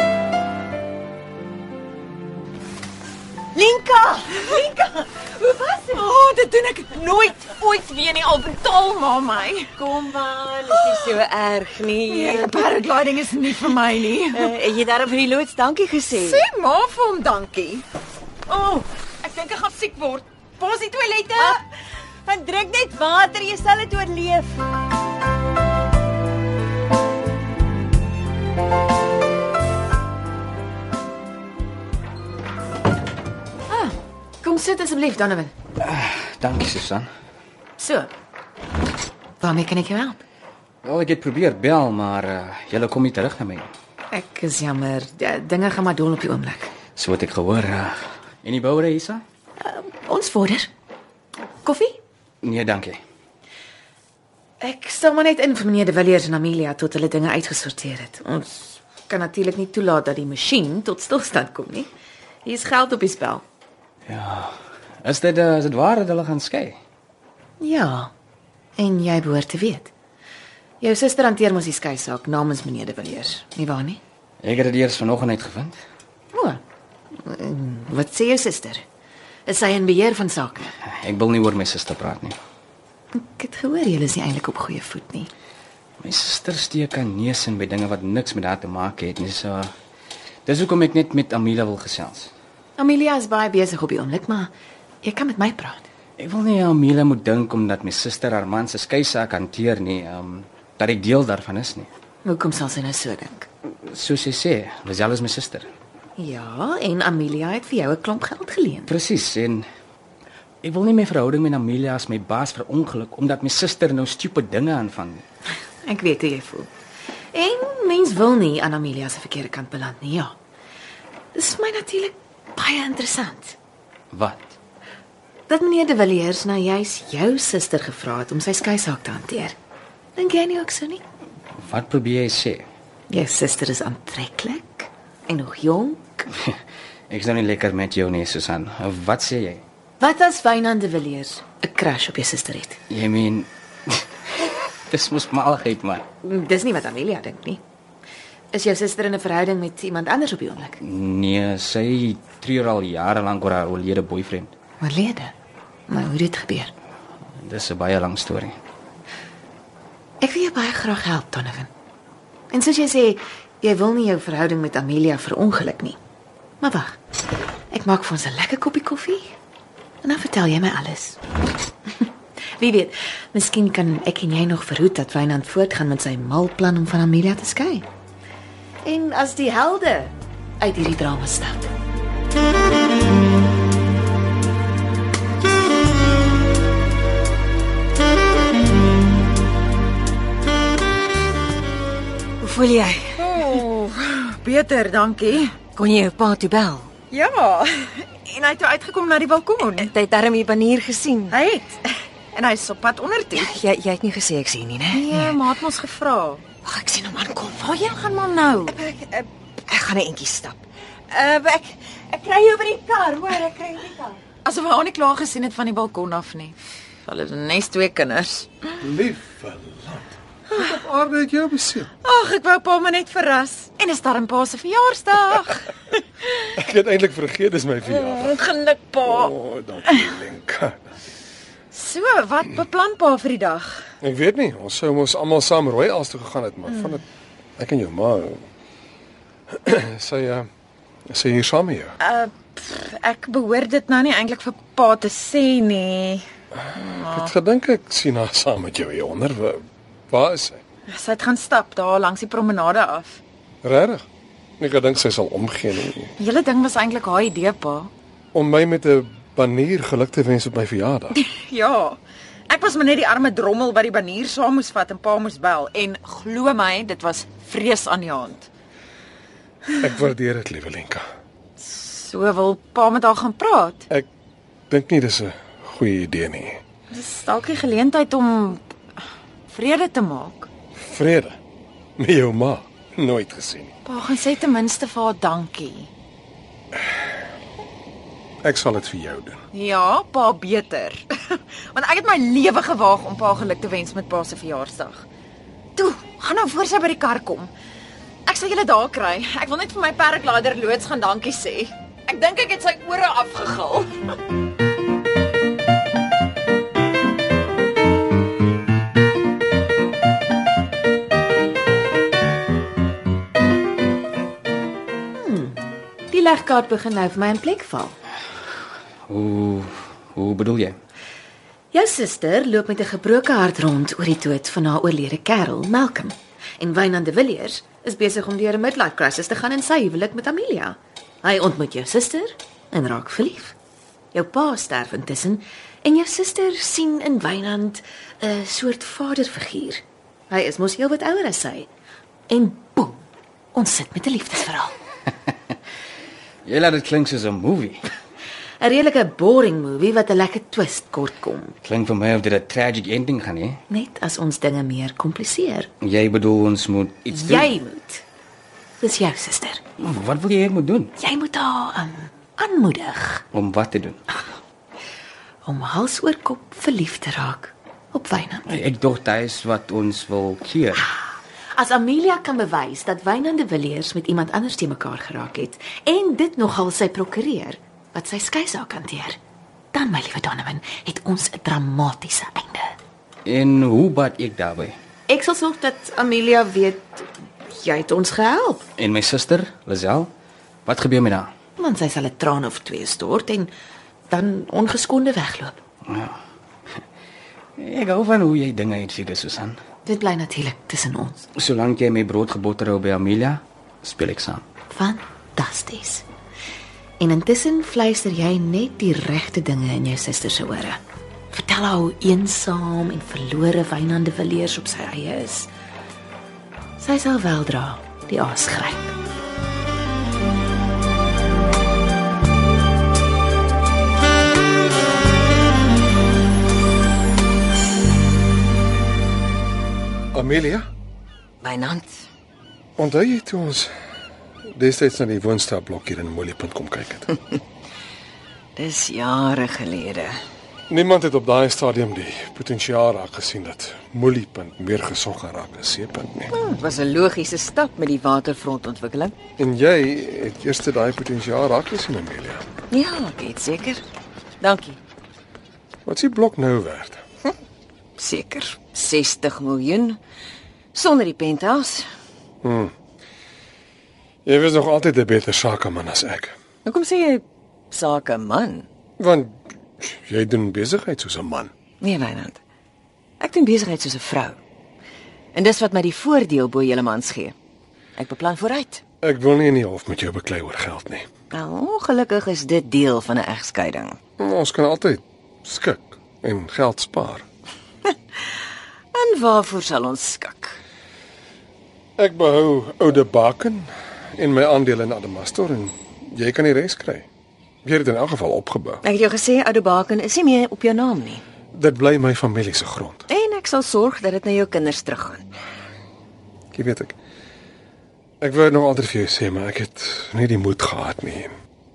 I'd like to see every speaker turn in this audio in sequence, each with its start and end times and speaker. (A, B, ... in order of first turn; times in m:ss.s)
0:03.6-0:05.9 A
0:05.6-0:09.7 B
0:09.8-0:12.8 A
0:12.0-0:14.7 B
0:14.3-0:16.4 A
0:16.1-0:17.8 B
0:18.5-0:21.6 B
0:18.6-0:18.8 A
0:22.3-0:24.6 A
0:33.7-0:35.5 C
0:35.8-0:37.1 D
0:37.8-0:38.1 C
0:39.4-0:40.2 C
0:40.8-0:43.7 D
0:44.1-0:46.7 C
0:47.0-0:49.2 D
0:49.6-0:50.7 C
0:51.6-0:52.0 C
0:52.4-0:53.0 D
0:54.6-1:01.9 C
1:02.4-1:03.4 C
1:04.1-1:06.8 D
1:07.6-1:08.1 C
1:08.8-1:09.9 C
1:10.8-1:14.0 C
1:14.4-1:15.8 D
1:16.3-1:16.6 C
1:17.2-1:18.8 C
1:19.5-1:20.7 C
1:20.8-1:22.4 D
1:23.1-1:25.3 C
1:26.0-1:29.7 D
1:30.5-1:32.3 D
1:32.8-1:34.5 C
1:35.0-1:35.9 C
1:36.2-1:41.9 D
1:42.2-1:43.5 C
1:43.9-1:45.7 D
1:46.2-1:48.9 C
1:48.9-1:49.7 D
1:50.6-1:55.2 D
1:55.8-1:56.7 C
1:57.3-2:00.4 C
2:01.4-2:03.6 C
2:04.1-2:04.6 D
2:05.5-2:09.6 C
2:10.2-2:11.0 C
2:11.6-2:12.7 D
2:13.1-2:16.3 C
2:17.1-2:19.6 D
2:20.0-2:22.8 C
2:22.9-2:26.1 D
2:26.2-2:27.6 C
2:28.5-2:30.8 C
2:30.8-2:34.5 D
2:34.8-2:35.3 C
2:35.9-2:36.7 C
2:37.4-2:38.6 D
2:40.2-2:41.7 C
2:42.5-2:46.0 C
2:46.6-2:47.0 C
2:47.7-2:49.3 C
2:50.0-2:51.2 C
2:52.6-2:57.9 C
2:58.8-3:01.7 C
3:12.4-3:13.6 A
3:13.2-3:15.6 B
3:15.6-3:16.9 A
3:17.1-3:19.9 B
3:19.8-3:21.4 A
3:21.3-3:23.5 B
3:23.3-3:25.4 A
3:24.9-3:26.4 B
3:26.6-3:27.6 A
3:27.4-3:28.8 B
3:28.6-3:34.2 A
3:34.4-3:36.6 B
3:37.1-3:38.5 B
3:38.8-3:41.9 E
3:42.0-3:45.7 B
3:46.5-3:48.4 E
3:47.9-3:49.3 B
3:49.0-3:50.8 E
3:51.7-3:52.4 B
3:51.9-3:53.8 A
3:54.0-3:57.0 E
3:57.6-3:58.4 E
3:59.5-4:00.5 E
4:01.1-4:02.0 E
4:02.0-4:06.2 B
4:06.7-4:10.6 E
4:06.8-4:07.3 B
4:10.9-4:13.2 B
4:13.6-4:14.0 E
4:14.6-4:16.1 E
4:16.2-4:17.9 B
4:18.3-4:21.2 E
4:21.1-4:28.5 B
4:29.8-4:31.0 E
4:31.6-4:33.8 B
4:34.7-4:36.6 E
4:36.9-4:38.6 B
4:39.5-4:40.5 B
4:40.9-4:41.4 E
4:42.0-4:43.7 E
4:43.8-4:45.9 B
4:48.4-4:49.4 E
4:49.5-4:55.0 B
4:55.8-4:57.5 B
4:58.3-5:03.9 B
5:15.2-5:18.0 C
5:19.1-5:20.8 D
5:21.7-5:33.6 C
5:34.1-5:41.7 C
5:42.3-5:44.8 C
5:46.4-5:47.9 D
5:48.6-5:51.6 C
5:51.6-5:53.6 D
5:53.7-5:55.7 C
5:55.8-5:57.5 D
5:57.1-5:58.0 C
5:58.8-5:59.6 C
5:59.8-6:00.9 D
6:01.0-6:03.2 C
6:03.3-6:04.0 D
6:05.4-6:08.5 C
6:08.5-6:10.8 D
6:10.8-6:19.2 C
6:19.7-6:22.7 C
6:23.2-6:24.8 D
6:25.1-6:28.6 C
6:28.8-6:30.1 D
6:30.7-6:31.3 D
6:31.6-6:33.5 C
6:34.1-6:35.6 C
6:35.9-6:36.2 D
6:37.6-6:39.6 D
6:39.8-6:41.2 C
6:41.4-6:44.4 D
6:44.7-6:46.0 C
6:47.0-6:55.5 C
6:56.8-6:59.0 C
7:10.1-7:10.7 E
7:11.4-7:11.9 A
7:12.8-7:13.7 E
7:14.5-7:17.2 E
7:18.6-7:20.2 A
7:20.7-7:26.3 E
7:26.3-7:29.2 A
7:29.4-7:32.4 E
7:32.7-7:33.8 A
7:34.4-7:34.8 A
7:35.9-7:37.0 E
7:38.0-7:40.0 A
7:40.7-7:41.9 A
7:42.4-7:42.7 E
7:44.2-7:46.4 E
7:46.6-7:48.7 A
7:49.0-7:51.5 E
7:51.8-7:52.4 A
7:53.2-7:54.4 A
7:55.3-7:57.4 A
7:58.0-7:58.8 A
7:59.0-8:01.1 E
8:01.3-8:04.0 A
8:04.2-8:07.2 E
8:08.9-8:10.6 A
8:12.0-8:17.1 E
8:17.6-8:18.8 E
8:18.8-8:21.2 A
8:21.5-8:23.0 E
8:23.1-8:25.2 A
8:26.5-8:27.0 E
8:28.2-8:31.4 E